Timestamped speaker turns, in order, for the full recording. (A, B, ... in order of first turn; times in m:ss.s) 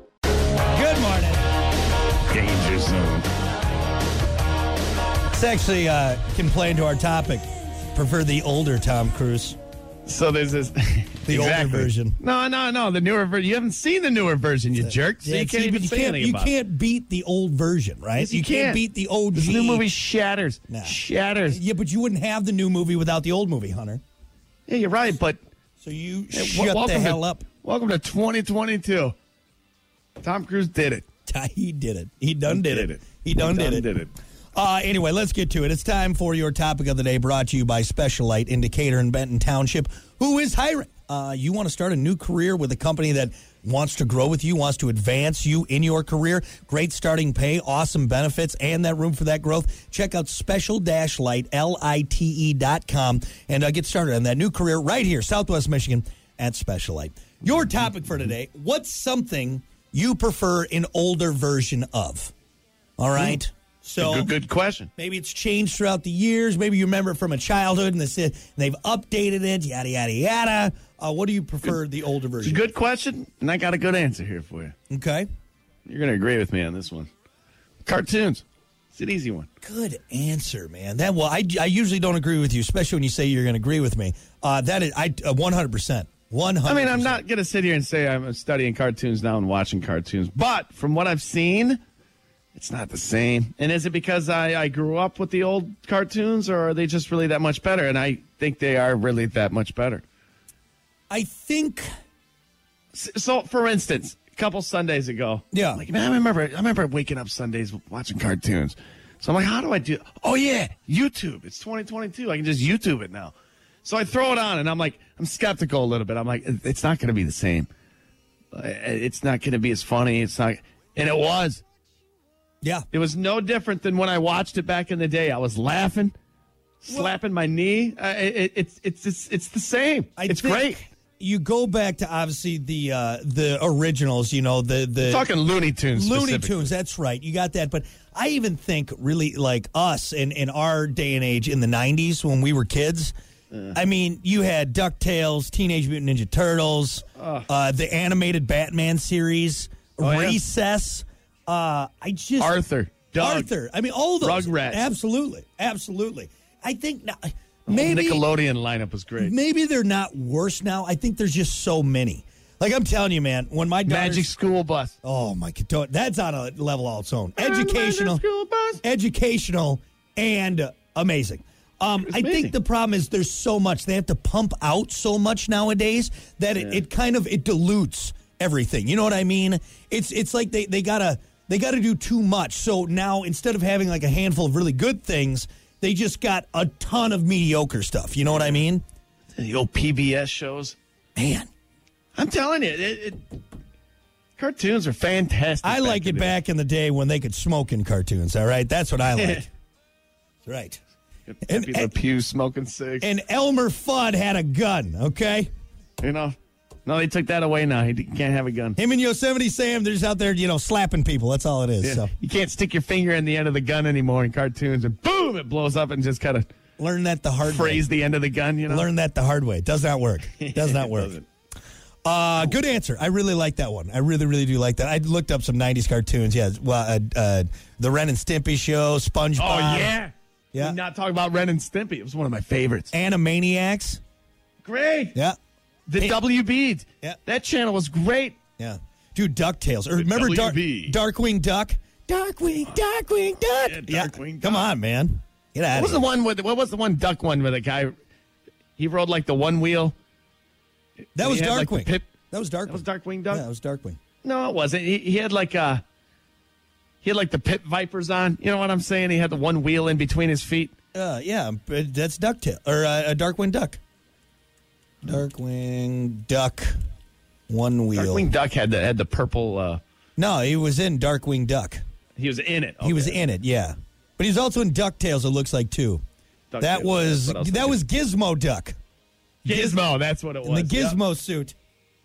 0:00.7-0:01.4 A
0:02.3-0:03.3 B
0:05.3-0:09.6 A
0:10.1-0:16.5 B
0:11.3-0:12.2 A
0:14.8-0:19.9 A
0:18.2-0:21.6 B
0:20.7-0:21.0 A
0:21.5-0:24.0 A
0:24.7-0:25.4 B
0:25.8-0:27.4 A
0:26.3-0:29.2 B
0:30.2-0:31.0 B
0:31.3-0:33.9 A
0:32.5-0:34.1 B
0:34.6-1:02.3 A
1:03.0-1:04.3 A
1:03.2-1:03.4 B
1:04.0-1:04.9 B
1:05.0-1:12.6 A
1:12.4-1:14.7 B
1:14.9-1:15.3 A
1:15.9-1:17.1 B
1:17.8-1:19.5 B
1:19.6-1:27.2 A
1:26.6-1:31.8 B
1:32.6-1:40.0 B
1:41.1-1:41.9 A
1:42.9-1:57.7 B
1:45.5-1:45.8 A
1:58.5-2:01.6 B
2:02.9-2:06.1 B
2:06.8-2:10.8 B
2:10.2-2:15.3 A
2:15.0-2:16.7 B
2:15.9-2:23.1 A
2:23.7-2:32.6 A
2:27.2-2:27.5 B
2:30.0-2:30.4 B
2:32.4-2:33.5 B
2:33.2-2:38.2 A
2:34.2-2:34.9 B
2:37.7-2:39.3 B
2:39.2-2:44.3 A
2:43.9-2:45.0 B
2:45.0-2:48.2 A
2:47.4-2:48.8 B
2:48.8-3:08.8 A
2:52.0-2:52.5 B
2:56.6-2:56.8 B
3:08.3-3:08.6 B
3:09.4-3:10.8 B
3:11.2-3:11.5 A
3:12.2-3:13.2 B
3:14.4-3:16.4 B
3:15.6-3:19.4 A
3:19.1-3:19.4 B
3:20.5-3:20.8 A
3:21.3-3:23.1 B
3:21.4-3:21.9 A
3:23.0-3:25.5 A
3:26.0-3:28.8 B
3:28.8-3:32.1 A
3:31.8-3:36.5 B
3:36.8-3:37.9 A
3:37.4-3:38.9 B
3:38.7-3:41.2 A
3:40.3-3:41.3 B
3:42.0-3:49.9 A
3:49.4-3:52.9 B
3:52.9-3:54.0 A
3:54.6-3:55.2 B
3:55.9-3:58.4 B
3:58.6-4:06.1 A
4:00.0-4:01.0 B
4:02.7-4:04.7 B
4:05.7-4:07.9 B
4:08.8-4:10.0 B
4:11.2-4:12.1 B
4:11.2-4:14.0 A
4:12.7-4:13.5 B
4:14.2-4:15.8 B
4:17.0-4:20.7 B
4:20.9-4:23.8 A
4:25.0-4:26.8 A
4:27.5-4:28.3 A
4:28.0-4:29.8 B
4:30.2-4:31.8 A
4:32.2-4:33.2 B
4:32.8-4:36.0 A
4:36.5-4:37.8 B
4:36.6-4:38.8 A
4:39.4-4:41.0 B
4:39.5-4:39.8 A
4:40.4-4:41.6 A